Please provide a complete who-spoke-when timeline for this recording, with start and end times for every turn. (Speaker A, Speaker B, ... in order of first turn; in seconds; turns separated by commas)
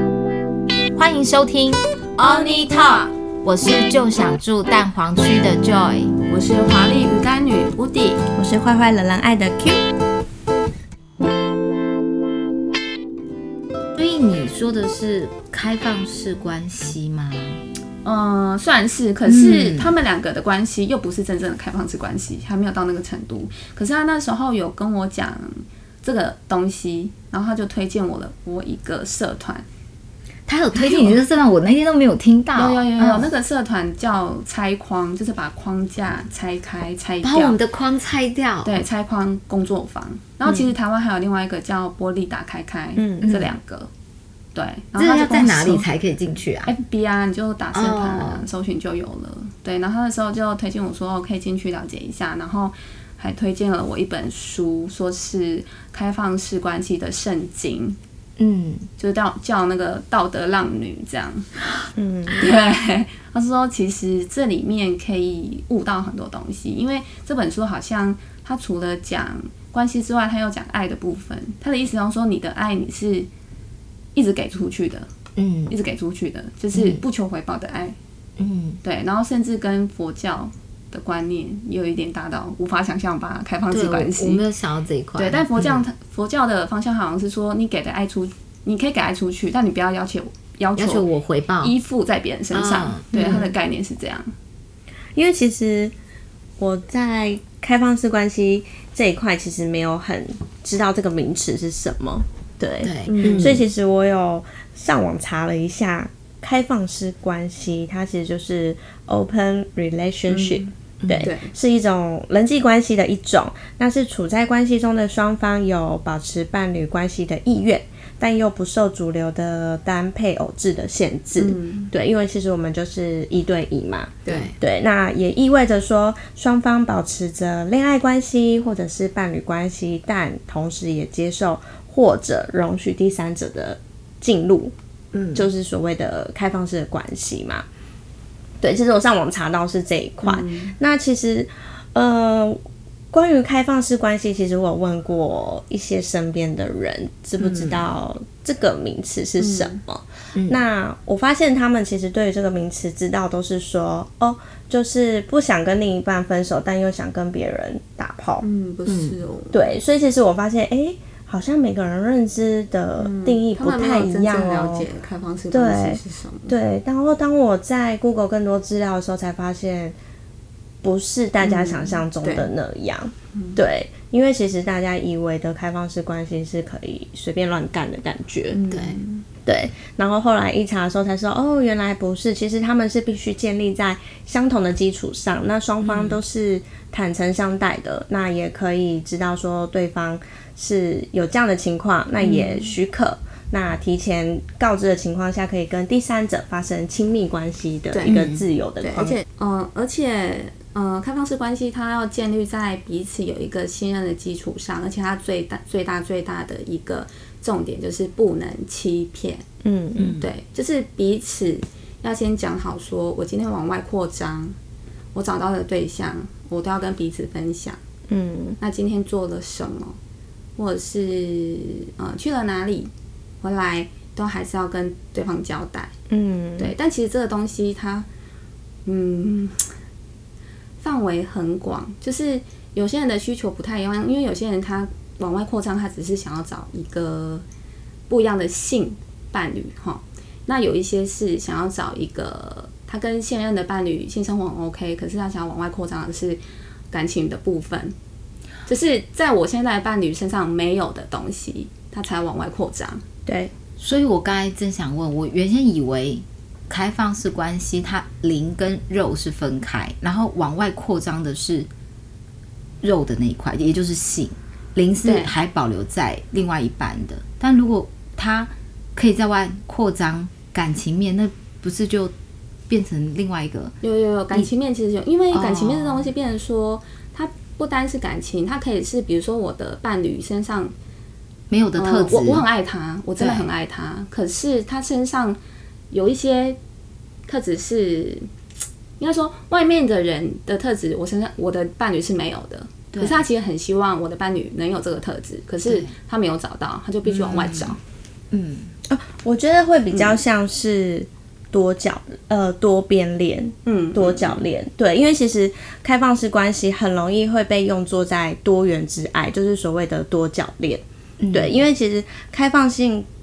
Speaker A: 0.9-1.8, Speaker B: 2.2-3.1, Speaker A: 2.7-6.1, Speaker B: 6.3-8.2, Speaker C: 8.3-9.8, Speaker A: 13.9-17.6, Speaker B: 18.0-29.6, Speaker A: 19.2-19.9, Speaker A: 30.5-33.3, Speaker B: 30.7-31.2, Speaker B: 32.5-37.6, Speaker A: 37.2-38.8, Speaker B: 38.6-43.9, Speaker C: 43.0-43.3, Speaker A: 43.2-43.5, Speaker B: 44.5-45.9, Speaker A: 45.0-46.8, Speaker B: 46.7-58.0, Speaker A: 47.7-48.4, Speaker A: 58.4-58.9, Speaker B: 59.0-61.5, Speaker C: 62.0-62.5, Speaker B: 62.3-73.3, Speaker B: 74.1-75.1, Speaker A: 75.4-75.7, Speaker B: 75.7-78.0, Speaker A: 76.7-77.0, Speaker A: 78.4-78.8, Speaker B: 78.8-84.4, Speaker A: 83.7-85.8, Speaker B: 85.1-91.1, Speaker A: 90.8-91.7, Speaker B: 91.6-94.3, Speaker A: 92.5-93.5, Speaker C: 93.1-93.4, Speaker C: 95.1-95.9, Speaker C: 96.6-134.7, Speaker A: 102.8-103.6, Speaker B: 103.1-103.6, Speaker B: 110.3-110.7, Speaker A: 111.0-111.3, Speaker B: 111.2-111.5, Speaker B: 121.4-121.9, Speaker A: 124.2-124.5, Speaker A: 135.1-135.4, Speaker C: 135.3-137.6, Speaker C: 138.6-142.6, Speaker B: 140.2-140.7, Speaker C: 143.1-158.4, Speaker A: 147.4-147.8, Speaker B: 149.4-149.8, Speaker A: 150.3-150.6, Speaker B: 158.4-159.7, Speaker A: 158.8-159.2, Speaker C: 159.5-164.9, Speaker B: 163.0-166.5, Speaker C: 165.5-169.9, Speaker C: 170.8-178.6, Speaker B: 171.4-172.5, Speaker B: 173.3-173.6, Speaker B: 178.5-179.2, Speaker A: 178.7-179.0, Speaker C: 179.4-199.2, Speaker A: 185.8-186.2, Speaker B: 192.2-192.8, Speaker B: 197.9-198.3, Speaker A: 198.1-198.4, Speaker B: 198.8-209.4, Speaker C: 209.6-210.1, Speaker A: 209.9-210.3, Speaker B: 210.2-214.6, Speaker B: 215.1-217.8, Speaker C: 218.1-218.6, Speaker B: 218.6-219.9, Speaker B: 220.6-222.9, Speaker B: 223.4-225.9, Speaker C: 226.1-226.7, Speaker B: 226.6-228.1, Speaker B: 228.8-229.7, Speaker B: 230.8-237.4, Speaker B: 238.1-247.9, Speaker B: 248.7-253.0, Speaker C: 253.2-253.5, Speaker A: 253.8-261.7, Speaker A: 262.8-272.1, Speaker B: 265.0-265.3, Speaker A: 272.7-273.7, Speaker B: 273.8-280.7, Speaker A: 275.3-276.1, Speaker A: 281.5-282.4, Speaker B: 281.7-285.4, Speaker A: 283.2-283.5, Speaker B: 285.9-286.6, Speaker B: 287.3-288.3, Speaker B: 289.0-297.8, Speaker A: 292.9-293.2, Speaker A: 295.6-295.9, Speaker A: 297.1-297.8, Speaker A: 298.3-298.7, Speaker C: 298.9-313.1, Speaker B: 303.6-304.4, Speaker A: 311.2-311.6